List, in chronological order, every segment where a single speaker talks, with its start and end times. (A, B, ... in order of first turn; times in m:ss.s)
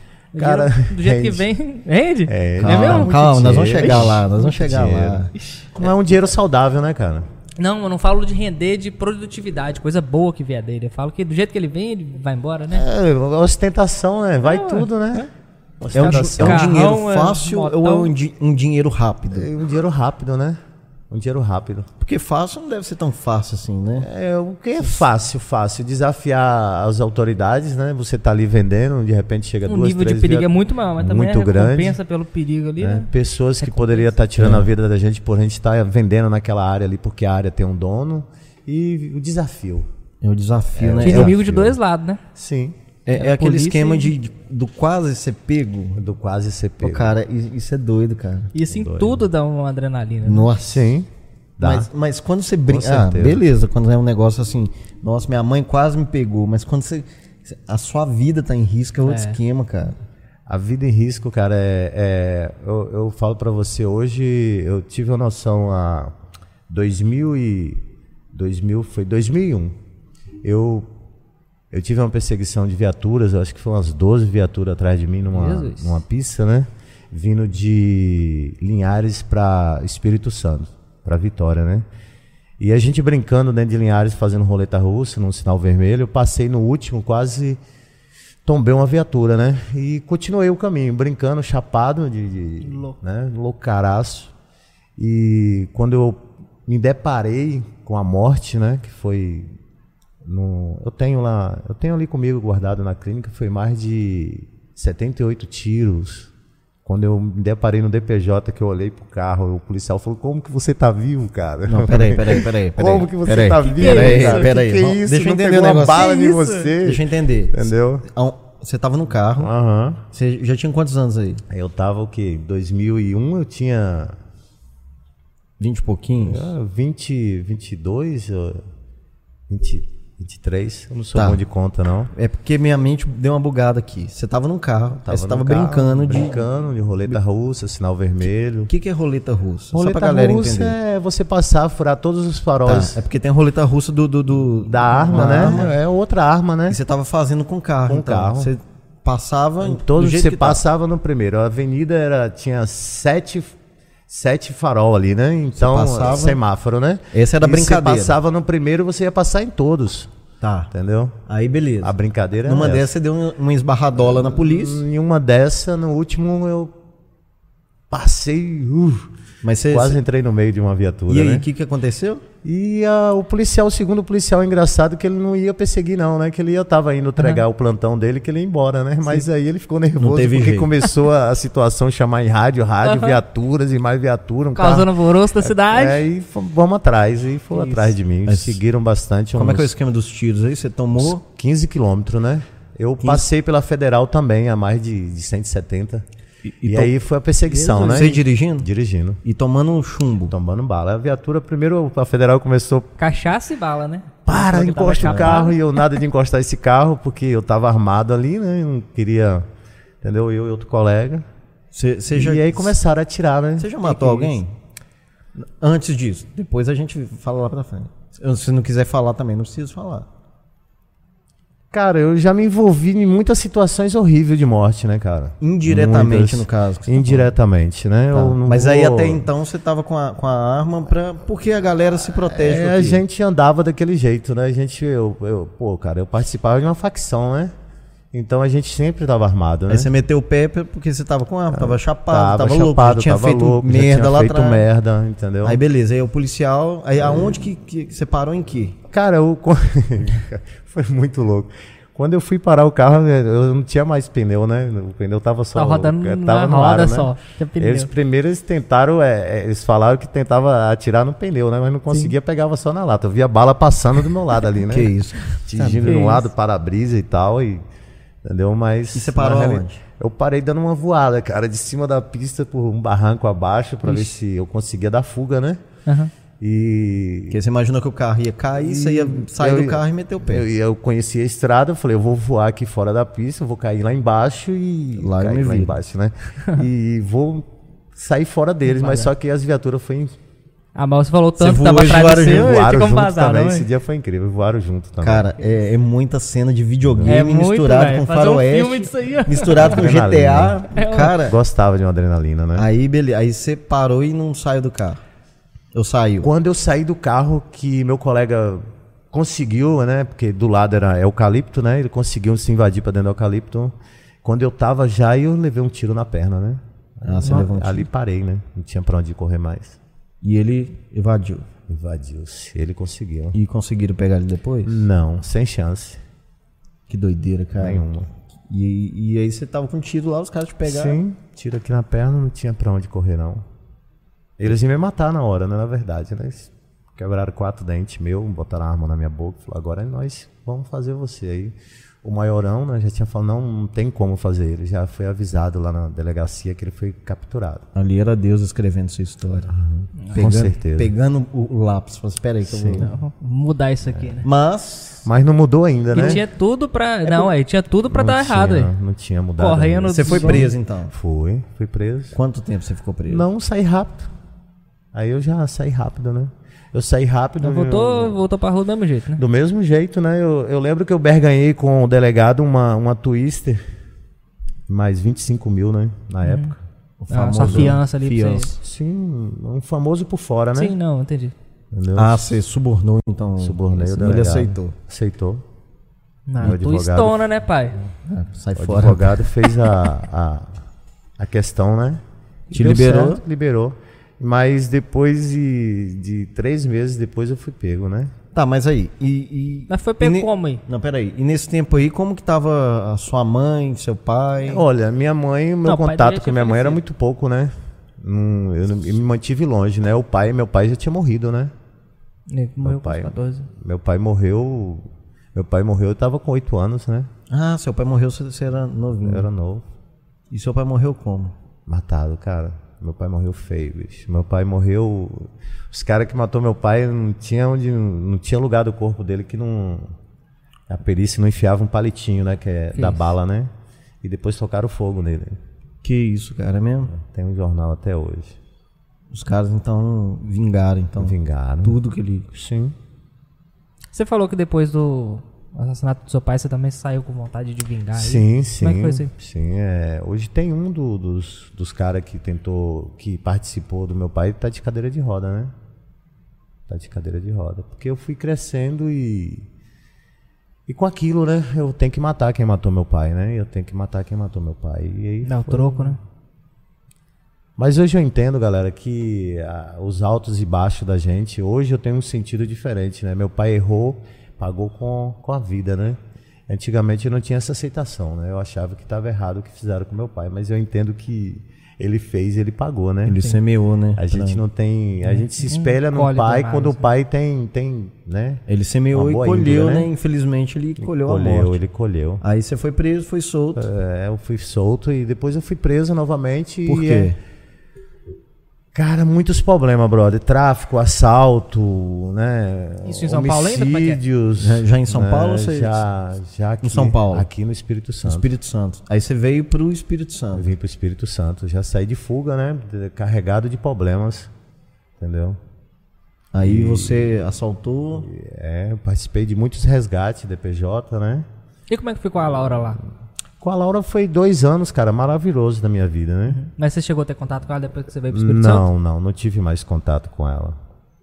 0:00.3-0:03.1 A
0:00.4-0:01.5 B
0:02.3-0:07.3 B
0:02.6-0:05.3 C
0:03.8-0:04.1 A
0:05.3-0:05.7 A
0:07.6-0:12.8 A
0:12.7-0:15.3 B
0:14.4-0:15.3 A
0:15.8-0:16.6 B
0:15.9-0:19.5 C
0:16.0-0:18.1 A
0:19.3-0:20.6 B
0:21.1-0:21.9 B
0:22.0-0:24.1 C
0:24.0-0:32.0 B
0:29.7-0:34.1 A
0:32.8-0:39.9 B
0:34.4-0:34.7 C
0:40.2-0:41.4 C
0:40.8-0:41.8 B
0:41.0-0:42.2 A
0:42.3-0:42.8 B
0:43.0-0:46.0 C
0:43.1-0:44.1 A
0:46.0-0:47.1 B
0:46.8-0:48.5 C
0:48.5-0:50.5 A
0:48.6-0:49.2 B
0:50.2-0:51.0 C
0:50.6-0:51.9 B
0:51.6-1:00.0 C
0:52.7-0:53.4 B
0:59.0-0:59.4 A
1:00.5-1:06.1 B
1:06.7-1:09.8 B
1:10.4-1:10.9 B
1:11.7-1:21.8 B
1:15.3-1:16.0 A
1:22.6-1:27.6 B
1:28.4-1:34.3 B
1:32.6-1:33.0 A
1:35.0-1:39.5 B
1:40.2-1:46.3 B
1:46.8-1:58.1 B
1:51.6-1:56.2 C
1:53.6-1:54.5 A
1:55.9-1:56.7 A
1:56.8-1:59.5 C
1:59.4-2:00.0 B
2:00.1-2:01.4 C
2:01.5-2:04.2 B
2:05.6-2:06.5 C
2:06.2-2:08.6 B
2:09.5-2:12.1 B
2:11.1-2:11.4 C
2:12.1-2:16.4 C
2:15.0-2:18.7 B
2:18.7-2:20.8 C
2:19.7-2:23.0 B
2:22.6-2:25.7 C
2:24.6-2:26.8 B
2:26.7-2:30.6 C
2:27.9-2:28.5 B
2:29.6-2:33.6 B
2:34.1-2:40.1 B
2:35.5-2:36.4 C
2:37.1-2:38.2 C
2:40.4-2:40.7 C
2:40.7-2:41.2 B
2:41.3-2:44.8 C
2:41.8-2:42.9 B
2:44.0-2:46.7 B
2:47.9-2:49.1 B
2:49.4-2:50.0 C
2:49.7-2:51.4 B
2:51.1-2:52.2 C
2:52.4-3:04.9 B
2:57.2-2:57.4 A
3:00.0-3:00.7 C
3:02.8-3:03.2 A
3:04.6-3:06.0 A
3:05.4-3:09.7 B
3:07.5-3:07.9 A
3:08.3-3:08.6 C
3:09.3-3:11.2 C
3:11.0-3:16.0 B
3:13.0-3:13.3 C
3:16.4-3:16.9 C
3:16.6-3:19.2 B
3:17.6-3:18.0 A
3:17.7-3:18.7 C
3:19.2-3:20.3 C
3:20.3-3:22.9 B
3:23.0-3:25.8 A
3:24.2-3:29.5 B
3:25.0-3:25.4 C
3:30.0-3:31.2 B
3:31.7-3:32.7 C
3:32.1-3:34.3 B
3:33.6-3:34.5 C
3:35.4-3:40.1 C
3:41.7-3:49.3 B
3:45.4-3:47.3 C
3:48.1-3:53.0 C
3:52.1-3:57.5 B
3:58.1-3:59.9 B
3:59.7-4:04.6 C
4:01.5-4:05.6 B
4:05.4-4:08.8 C
4:07.0-4:07.4 B
4:08.9-4:27.6 B
4:15.5-4:17.9 A
4:24.7-4:26.0 C
4:25.8-4:26.3 A
4:28.2-4:35.6 B
4:28.9-4:29.8 C
4:35.8-4:36.1 A
4:36.4-4:37.4 B
4:37.3-4:40.4 C
4:38.6-4:50.2 B
4:45.0-4:45.8 C
4:48.6-4:49.1 A
4:50.7-4:53.7 A
4:51.4-4:52.5 C
4:52.0-4:55.3 B
4:55.0-5:01.4 C
4:56.8-4:57.2 B
4:57.1-4:59.9 A
4:59.6-5:02.7 B
5:00.7-5:01.2 A
5:02.5-5:05.0 C
5:05.7-5:06.3 C
5:06.2-5:19.8 B
5:17.0-5:17.8 C
5:20.2-5:21.5 C
5:21.7-5:23.4 B
5:23.3-5:24.8 C
5:24.6-5:26.0 B
5:26.9-5:27.8 C
5:27.6-5:28.1 B
5:28.5-5:31.0 C
5:30.6-5:33.4 B
5:34.4-5:47.6 B
5:47.7-5:49.5 C
5:49.5-5:50.9 B
5:50.0-5:50.3 A
5:50.1-5:52.9 C
5:52.4-5:52.9 B
5:52.8-5:54.3 A
5:54.2-5:55.0 C
5:55.0-5:56.2 B
5:55.9-5:58.7 A
5:57.0-5:57.3 B
5:57.9-6:02.1 B
5:59.4-6:00.5 A
5:59.9-6:00.9 C
6:02.1-6:03.3 C
6:03.0-6:04.1 B
6:04.9-6:08.2 B
6:07.4-6:09.2 A
6:09.2-6:13.6 B
6:14.7-6:16.6 B
6:16.2-6:16.5 A
6:17.0-6:18.5 C
6:17.1-6:18.5 A
6:17.4-6:17.8 B
6:18.6-6:20.7 B
6:20.5-6:21.3 A
6:21.7-6:22.4 B
6:21.9-6:24.7 C
6:23.4-6:25.4 B
6:26.3-6:27.8 A
6:26.4-6:27.2 B
6:28.0-6:29.3 C
6:28.5-6:30.6 B
6:31.2-6:38.1 B
6:32.5-6:33.2 C
6:38.3-6:44.6 C
6:39.7-6:40.6 A
6:44.4-6:51.5 B
6:45.6-6:46.8 A
6:52.3-6:53.5 A
6:52.6-6:57.1 B
6:57.3-6:59.3 C
6:59.0-6:59.6 B
7:00.3-7:01.3 C
7:01.7-7:09.9 B
7:10.7-7:13.5 B
7:12.7-7:13.0 A
7:14.0-7:15.4 B
7:15.8-7:16.9 C
7:16.9-7:18.4 B
7:19.1-7:22.3 C
7:21.0-7:21.8 B
7:22.3-7:22.7 B
7:23.9-7:29.1 A
7:28.0-7:35.5 B
7:36.7-7:39.5 B
7:40.7-7:46.0 B
7:45.2-7:46.0 A
7:47.6-8:03.2 B
8:03.0-8:04.4 C
8:04.0-8:09.9 B
8:05.0-8:06.8 A
8:08.5-8:11.6 C
8:10.8-8:12.2 B
8:12.2-8:13.7 C
8:13.6-8:17.1 B
8:16.6-8:17.2 C
8:18.7-8:28.3 B
8:22.8-8:24.0 A
8:24.4-8:25.8 C
8:26.6-8:27.3 C
8:28.0-8:30.5 C
8:30.3-8:34.3 B
8:35.0-8:35.4 B
8:36.3-8:38.1 C
8:36.4-8:37.1 B
8:38.0-8:41.3 B
8:41.7-8:42.8 A
8:43.4-8:46.4 B
8:46.3-8:48.7 A
8:48.1-8:50.6 B